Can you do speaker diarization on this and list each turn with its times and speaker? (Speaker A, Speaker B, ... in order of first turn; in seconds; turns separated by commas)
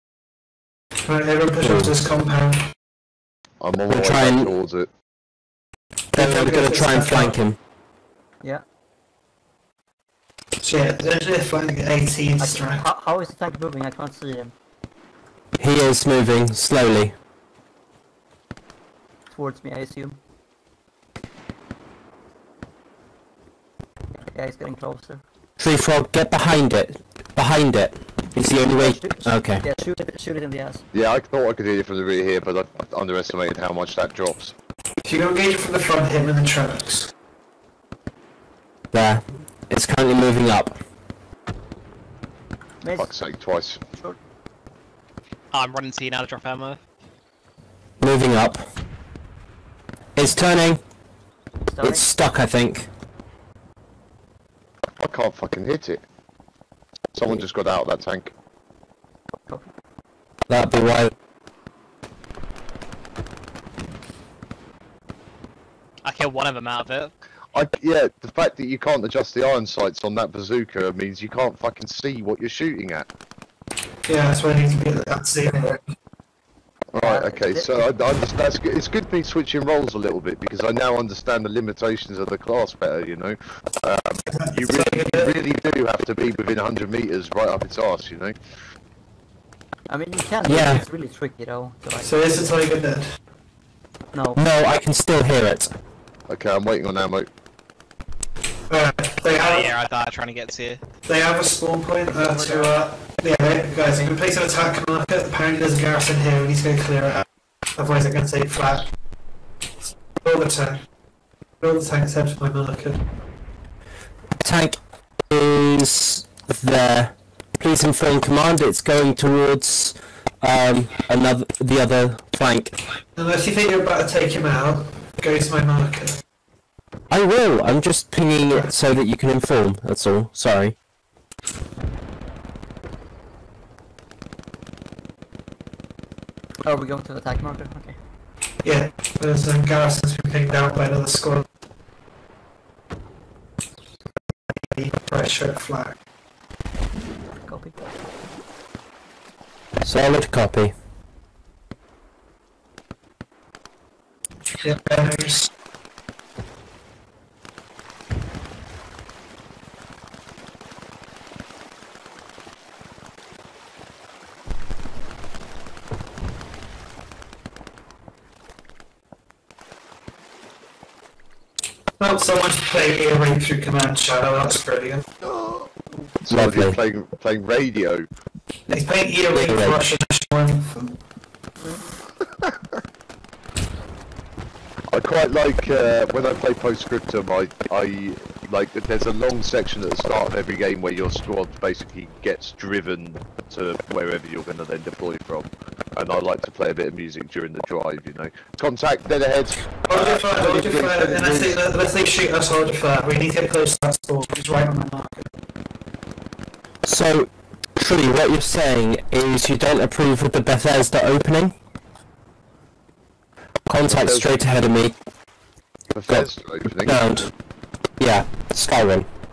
Speaker A: 1.1-2.7, Speaker B: 1.6-1.9, Speaker C: 3.6-4.9, Speaker B: 3.9-4.5, Speaker A: 6.1-7.4, Speaker B: 6.2-7.6, Speaker A: 10.6-12.8, Speaker D: 12.4-14.5, Speaker B: 15.6-17.1, Speaker D: 19.3-20.2, Speaker D: 24.1-25.2, Speaker B: 25.6-29.6, Speaker D: 28.7-30.8, Speaker C: 30.9-34.5, Speaker A: 35.0-37.1, Speaker B: 38.9-40.8, Speaker D: 42.8-43.1, Speaker C: 43.0-43.8, Speaker E: 45.5-46.8, Speaker B: 48.0-48.7, Speaker B: 50.2-50.8, Speaker D: 51.7-52.1, Speaker B: 51.8-52.9, Speaker C: 55.0-56.0, Speaker C: 57.1-58.3, Speaker D: 59.5-59.7, Speaker B: 60.5-61.1, Speaker E: 66.0-67.1, Speaker C: 67.5-73.1, Speaker A: 74.1-75.8, Speaker C: 76.9-88.4, Speaker D: 77.0-77.9, Speaker A: 84.3-85.3, Speaker D: 89.9-92.6, Speaker B: 90.5-90.8, Speaker A: 92.0-93.1, Speaker D: 94.1-94.4, Speaker B: 94.4-95.7, Speaker C: 96.3-97.3, Speaker A: 98.7-99.7, Speaker E: 99.4-100.8, Speaker A: 101.1-107.2, Speaker D: 102.1-102.8, Speaker D: 103.8-104.2, Speaker A: 107.8-108.9, Speaker A: 110.2-110.8, Speaker A: 111.6-113.0, Speaker B: 114.4-114.8, Speaker B: 115.3-122.8, Speaker A: 123.2-126.2, Speaker B: 127.1-130.8, Speaker D: 136.6-137.9, Speaker A: 138.6-141.4, Speaker A: 144.8-145.9, Speaker D: 147.4-147.8, Speaker B: 149.8-150.8, Speaker A: 154.6-155.5, Speaker A: 172.0-175.1, Speaker C: 176.2-178.1, Speaker B: 176.3-176.8, Speaker A: 178.7-180.9, Speaker B: 179.3-179.8, Speaker C: 184.9-200.5, Speaker A: 199.9-205.3, Speaker B: 200.4-201.5, Speaker B: 206.8-211.6, Speaker B: 213.7-214.9, Speaker C: 213.8-214.4, Speaker C: 215.9-217.2, Speaker B: 216.8-217.3, Speaker B: 218.0-219.1